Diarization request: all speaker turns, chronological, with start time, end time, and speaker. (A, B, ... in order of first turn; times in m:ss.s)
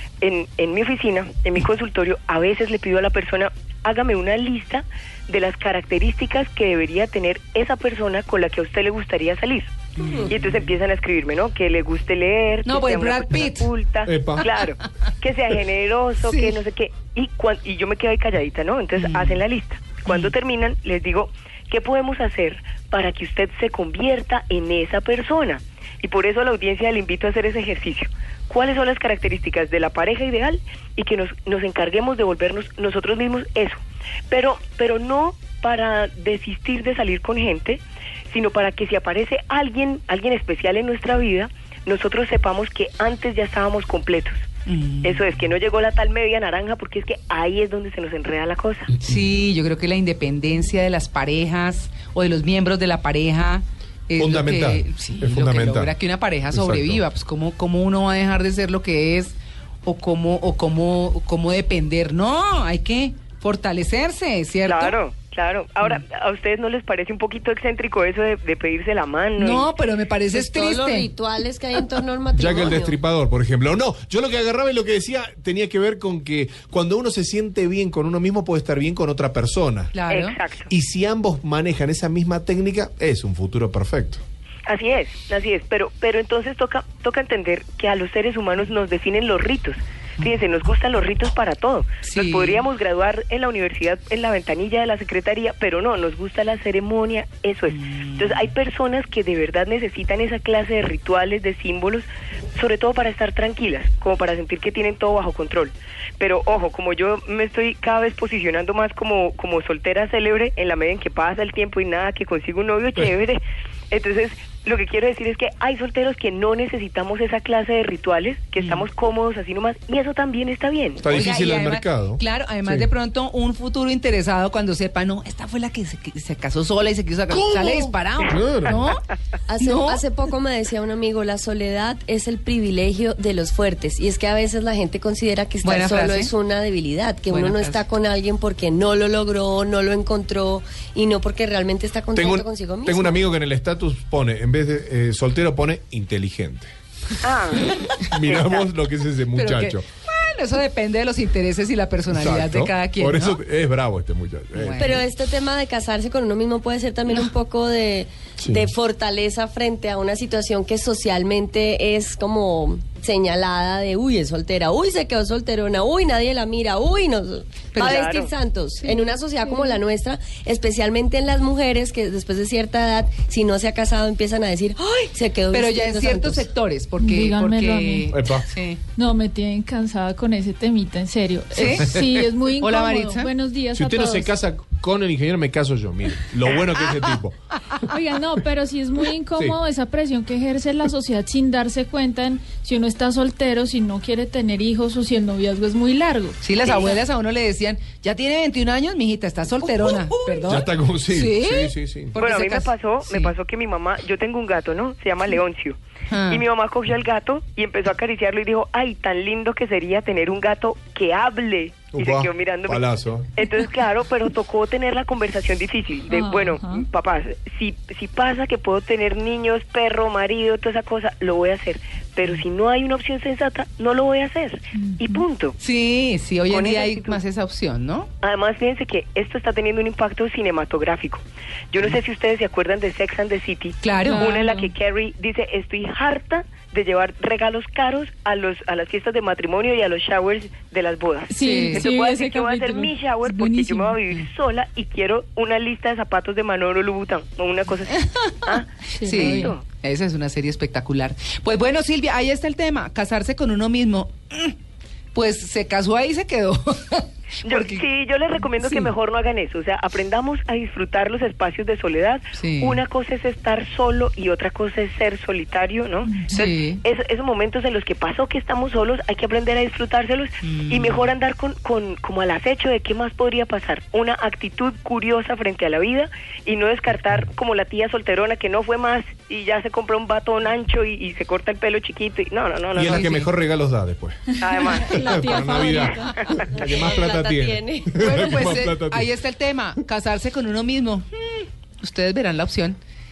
0:00.2-0:44.4 A
0:10.0-0:10.6 B
0:12.6-0:13.7 B
0:14.0-0:14.4 C
0:16.3-0:16.5 B
0:19.0-0:19.4 B
0:44.7-0:45.2 B
0:45.0-0:48.9 A
0:48.9-1:05.0 B
0:54.2-0:55.9 C
0:56.5-0:57.0 C
1:04.7-1:09.7 A
1:09.4-1:11.1 B
1:10.3-1:13.0 D
1:12.3-1:19.9 C
1:19.9-1:20.4 B
1:20.1-1:20.7 A
1:20.7-1:24.2 C
1:24.7-2:01.0 A
1:32.0-1:32.6 B
1:37.8-1:38.4 B
1:58.6-1:58.8 B
2:01.0-2:02.9 C
2:01.1-2:09.0 B
2:08.3-2:08.9 C
2:09.5-2:23.2 D
2:09.6-2:10.0 B
2:15.6-2:16.3 B
2:17.3-2:17.8 B
2:22.1-2:26.7 C
2:27.2-2:28.6 A
2:28.1-2:29.8 C
2:29.3-2:33.4 B
2:32.1-2:35.0 C
2:34.6-2:35.0 B
2:34.8-2:56.4 D
2:38.4-2:38.7 C
2:47.7-2:48.0 B
2:47.8-2:48.3 A
2:48.9-2:49.8 E
2:55.5-2:58.8 B
2:57.0-2:58.1 E
2:58.1-2:58.5 C
2:58.9-3:04.3 E
3:01.5-3:03.3 B
3:03.8-3:07.3 C
3:07.8-3:16.9 E
3:16.4-3:23.3 B
3:20.4-3:22.2 C
3:22.2-3:45.6 A
3:26.1-3:26.4 B
3:31.9-3:33.3 C
3:36.1-3:36.8 E
3:44.7-3:45.2 E
3:45.6-3:48.1 B
3:46.5-3:47.2 A
3:48.2-4:09.6 A
3:53.8-3:54.3 B
3:54.0-3:54.7 E
4:01.3-4:04.0 E
4:01.4-4:01.9 B
4:09.0-4:09.6 E
4:09.0-4:14.6 B
4:15.1-4:17.8 B
4:17.4-4:43.2 A
4:18.6-4:18.9 B
4:22.4-4:22.8 B
4:26.3-4:26.8 B
4:30.4-4:31.0 B
4:42.8-4:49.1 C
4:42.8-4:43.3 B
4:44.4-4:45.0 A
4:44.4-4:46.3 E
4:45.7-4:46.4 A
4:46.6-4:48.4 D
4:48.0-4:52.8 B